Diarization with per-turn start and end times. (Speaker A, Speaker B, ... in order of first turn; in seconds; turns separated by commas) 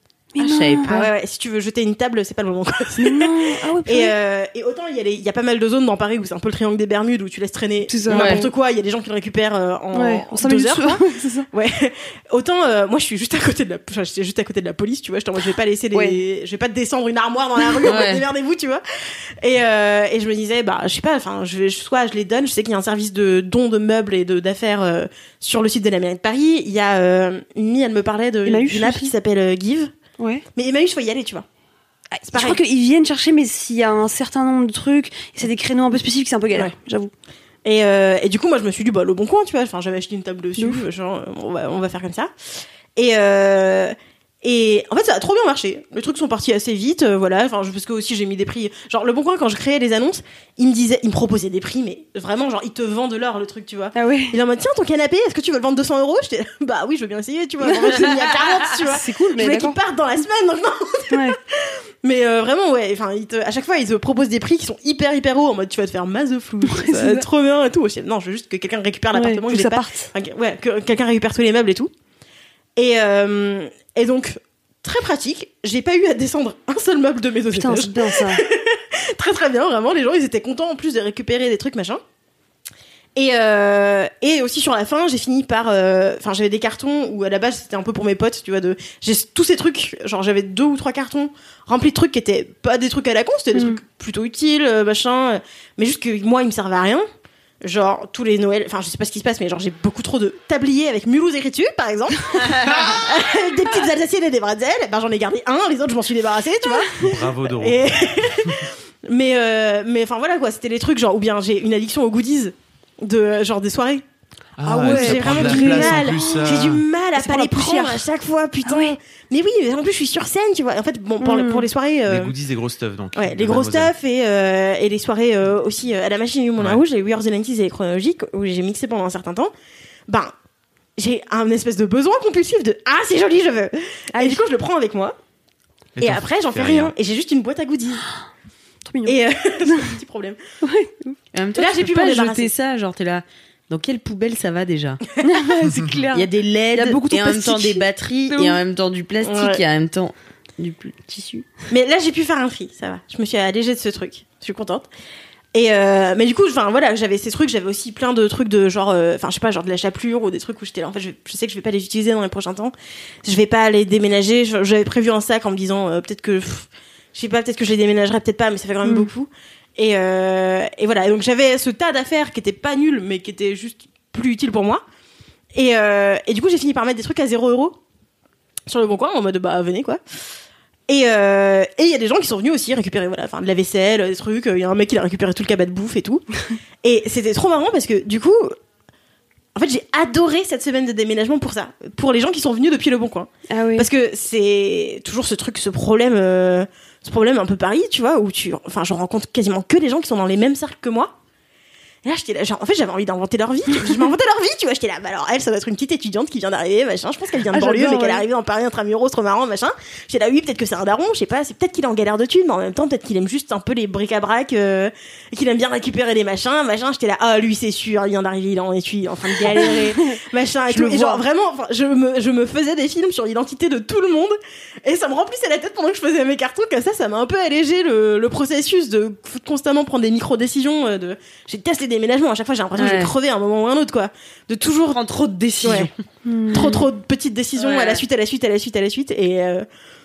Speaker A: 0.3-1.1, Speaker B: 0.4-1.0, Speaker C: 0.8-18.8, Speaker A: 3.0-4.2, Speaker A: 7.9-8.5, Speaker B: 8.1-8.5, Speaker A: 9.9-11.5, Speaker A: 15.9-16.2, Speaker B: 17.8-18.2, Speaker C: 19.4-29.9, Speaker A: 28.4-29.1, Speaker A: 30.2-30.4, Speaker C: 30.6-31.5, Speaker A: 32.1-37.1, Speaker C: 32.3-32.6, Speaker C: 37.6-42.3, Speaker A: 40.6-40.8, Speaker C: 43.0-61.3, Speaker A: 53.9-54.4, Speaker A: 57.6-59.8, Speaker A: 61.1-61.4, Speaker C: 62.0-71.9, Speaker A: 66.7-67.3, Speaker A: 69.1-70.1, Speaker C: 72.8-82.0, Speaker A: 77.5-78.4, Speaker C: 83.2-97.1, Speaker A: 93.5-93.8, Speaker C: 97.6-114.0, Speaker D: 107.0-107.8, Speaker D: 114.6-116.8, Speaker A: 114.7-116.6, Speaker C: 114.7-122.3, Speaker A: 117.2-118.1, Speaker A: 118.6-119.0, Speaker A: 121.2-121.7, Speaker D: 122.1-123.9, Speaker C: 123.2-129.5, Speaker D: 126.6-126.8, Speaker C: 130.1-130.3, Speaker C: 131.0-135.2, Speaker A: 134.1-134.4, Speaker D: 136.0-136.9, Speaker C: 136.0-138.1, Speaker A: 138.8-139.9, Speaker C: 139.1-140.4, Speaker A: 140.6-141.1, Speaker B: 141.3-145.0, Speaker C: 141.6-142.5, Speaker A: 145.2-148.6, Speaker B: 146.1-151.5, Speaker C: 149.2-149.6, Speaker C: 151.7-154.9, Speaker C: 155.5-174.8, Speaker A: 168.8-169.1, Speaker C: 175.5-177.8, Speaker C: 178.7-180.0, Speaker C: 180.9-186.2, Speaker C: 186.8-188.6, Speaker C: 189.6-201.1, Speaker A: 193.5-193.9, Speaker C: 202.0-235.0, Speaker A: 207.5-208.2, Speaker A: 219.5-220.2, Speaker A: 220.7-221.2, Speaker B: 232.8-233.1, Speaker B: 234.8-235.9, Speaker C: 235.6-235.9, Speaker A: 236.3-236.8, Speaker C: 236.5-239.7, Speaker B: 236.5-236.8, Speaker B: 237.6-238.0